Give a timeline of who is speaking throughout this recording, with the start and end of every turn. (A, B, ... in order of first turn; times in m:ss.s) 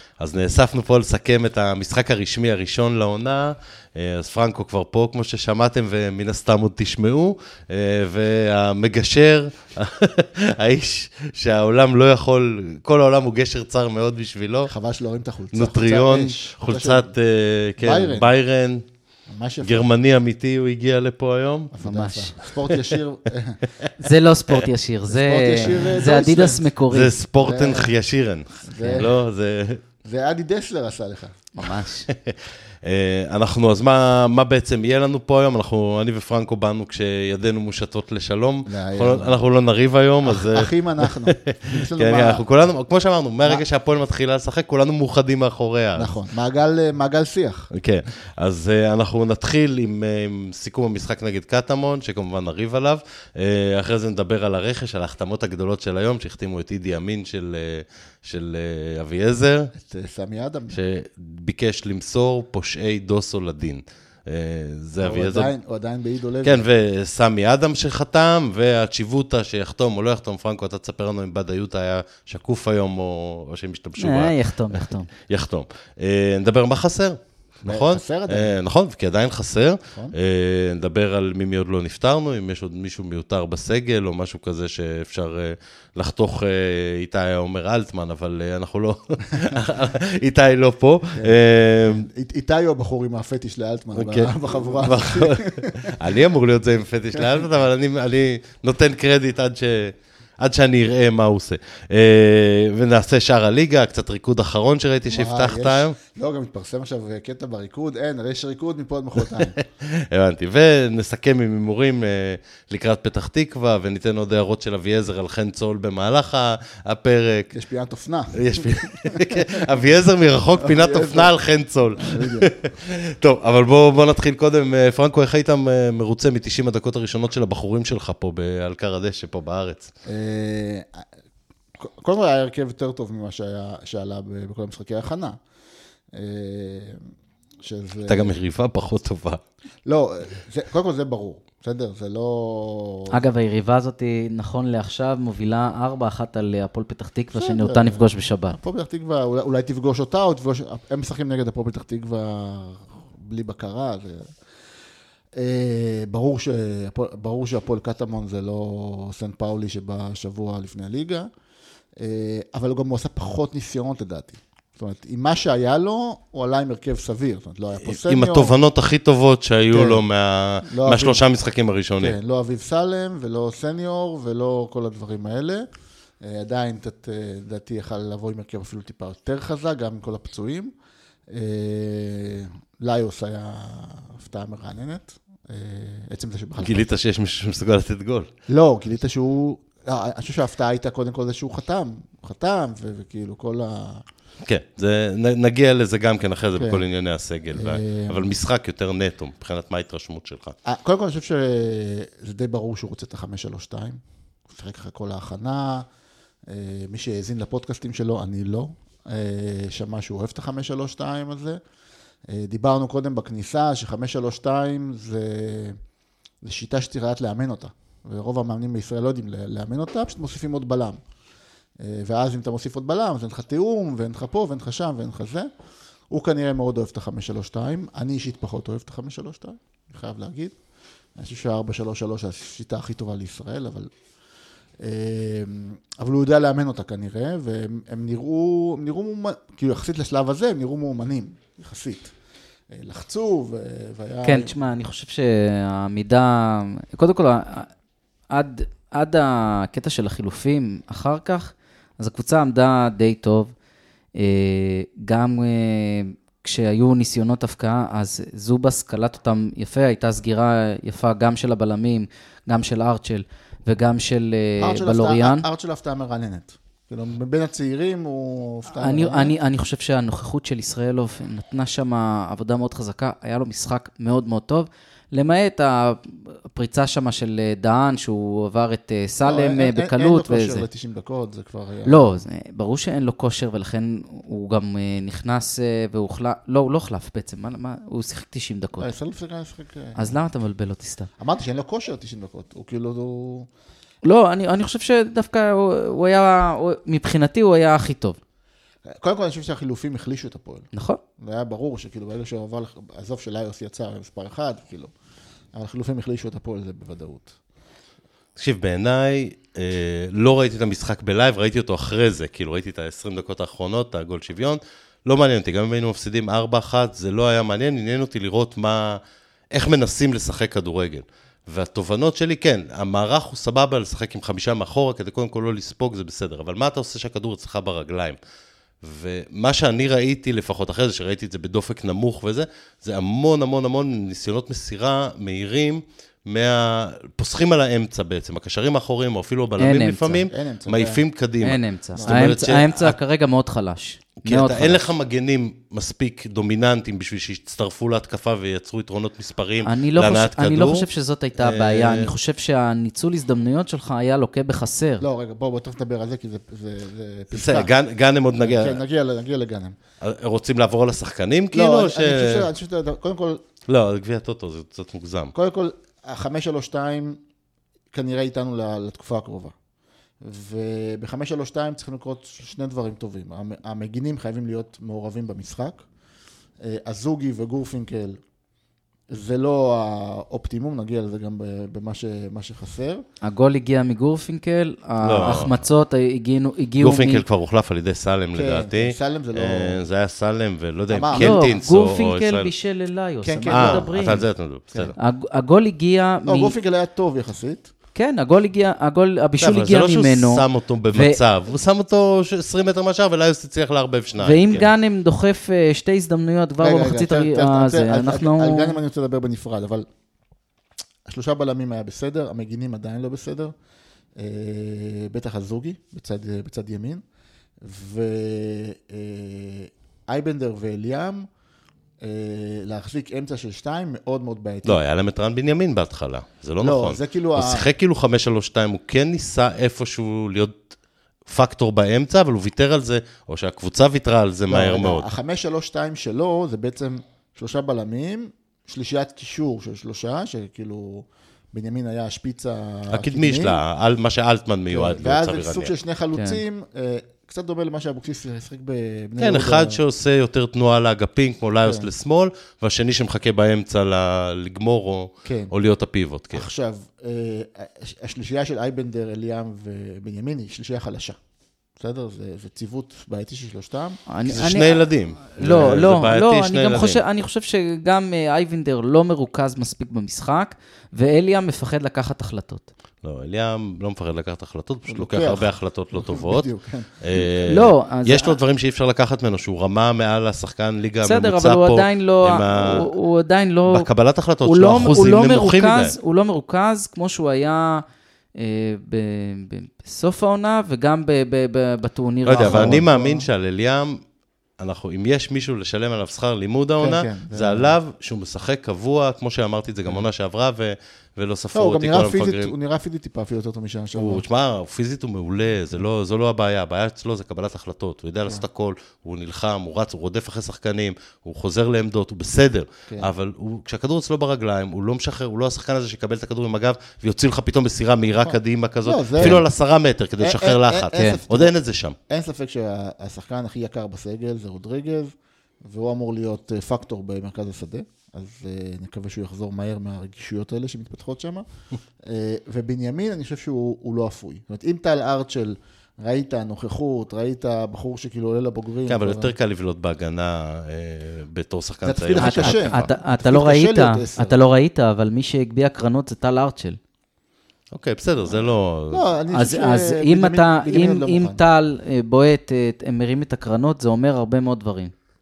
0:00.2-0:14.7 A
0:14.7-0:17.1 B
0:15.5-0:18.8 A
0:17.8-0:18.3 B
0:19.3-0:19.9 B
0:19.6-0:21.7 A
0:21.7-0:23.6 B
0:21.8-0:22.3 C
0:22.5-0:23.0 A
0:24.0-0:27.2 C
0:25.1-0:26.7 B
0:26.9-0:29.8 A
0:27.4-0:27.9 B
0:28.6-0:29.1 B
0:30.0-0:31.5 B
0:31.5-0:32.1 C
0:31.7-0:46.2 A
0:38.7-0:39.4 B
0:40.2-0:42.4 B
0:46.0-0:47.7 B
0:47.7-0:59.7 A
0:59.7-1:00.8 B
1:00.7-1:05.5 A
1:05.0-1:06.6 B
1:06.4-1:32.0 A
1:14.0-1:15.1 C
1:17.6-1:18.6 B
1:31.2-1:36.2 B
1:33.9-1:45.9 A
1:37.1-1:37.4 B
1:45.1-1:49.6 B
1:49.3-1:57.5 A
1:57.5-1:59.7 B
1:58.3-2:09.9 A
2:00.6-2:01.3 B
2:02.0-2:02.5 B
2:10.0-2:11.0 B
2:11.8-2:15.4 B
2:16.1-2:17.0 B
2:17.6-2:18.3 B
2:18.1-2:19.4 A
2:19.8-2:23.2 B
2:23.1-2:28.6 C
2:27.3-2:34.3 B
2:35.3-2:41.3 B
2:42.0-2:48.6 B
2:47.8-2:52.2 A
2:49.7-2:50.0 B
2:50.7-2:51.2 B
2:52.0-2:55.7 B
2:56.2-3:00.7 B
3:01.3-3:07.0 B
3:06.6-3:08.3 A
3:08.5-3:14.0 B
3:14.4-3:20.5 A
3:16.6-3:16.8 B
3:17.5-3:18.3 B
3:20.6-3:25.9 B
3:26.4-3:31.6 B
3:32.3-3:35.8 B
3:36.4-3:41.0 B
3:41.8-3:45.5 B
3:46.1-3:50.5 B
3:51.2-3:53.9 B
3:54.8-4:02.1 B
4:02.7-4:04.5 B
4:04.2-4:07.7 C
4:08.3-4:13.5 C
4:14.2-4:25.4 C
4:24.6-4:29.3 B
4:28.7-4:40.6 C
4:39.2-4:42.1 B
4:41.8-4:48.9 C
4:48.8-4:50.2 B
4:50.0-4:51.1 C
4:51.2-4:53.5 B
4:54.0-4:58.2 C
4:58.8-5:04.9 B
5:00.7-5:01.0 C
5:05.5-5:07.4 B
5:08.4-5:19.0 A
5:19.5-5:28.2 A
5:28.8-5:42.9 A
5:39.6-5:40.3 C
5:40.3-5:41.0 B
5:41.4-5:44.9 C
5:41.9-5:42.3 B
5:44.2-5:52.1 A
5:49.6-5:55.0 C
5:55.0-5:57.7 B
5:57.3-5:58.8 A
5:58.4-5:59.8 B
6:00.0-6:02.5 A
6:01.5-6:03.4 B
6:03.7-6:05.3 A
6:05.3-6:07.2 B
6:07.9-6:09.5 B
6:10.2-6:15.8 B
6:16.6-6:18.2 B
6:19.1-6:23.0 B
6:23.2-6:27.2 C
6:25.0-6:25.6 A
6:26.8-6:32.5 A
6:28.3-6:29.8 B
6:30.9-6:31.5 B
6:31.1-6:34.2 C
6:33.2-6:33.9 B
6:33.5-6:34.9 A
6:35.0-6:36.5 C
6:36.2-6:37.7 B
6:37.9-6:41.2 C
6:39.4-6:44.7 A
6:44.2-6:48.8 C
6:46.6-6:49.8 B
6:51.0-6:53.5 B
6:54.2-6:57.0 B
6:57.6-7:01.3 B
7:02.0-7:04.8 B
7:04.6-7:10.6 A
7:06.6-7:07.7 B
7:11.2-7:15.1 A
7:14.5-7:23.6 B
7:22.9-7:25.7 A
7:24.7-7:29.8 B
7:26.2-7:26.4 C
7:29.2-7:36.4 A
7:31.6-7:31.9 B
7:35.2-7:35.5 B
7:36.3-7:41.2 B
7:41.8-7:44.0 B
7:44.1-7:52.7 C
7:44.3-7:47.0 A
7:53.0-7:56.5 A
7:54.9-7:57.3 B
7:57.0-8:02.9 A
7:57.3-7:58.4 C
8:01.0-8:03.9 C
8:03.7-8:06.0 A
8:04.4-8:07.8 C
8:08.4-8:12.8 C
8:12.2-8:14.0 A
8:12.4-8:13.3 B
8:14.6-8:22.5 A
8:16.8-8:17.8 B
8:21.5-8:24.2 B
8:24.0-8:42.0 A
8:38.2-8:39.4 B
8:40.2-8:41.5 B
8:40.9-8:41.2 C
8:42.1-8:51.4 B
8:52.0-8:59.3 B
8:58.9-9:02.9 A
9:01.8-9:04.4 B
9:02.2-9:06.8 C
9:07.7-9:09.0 A
9:08.3-9:11.4 B
9:09.3-9:14.9 C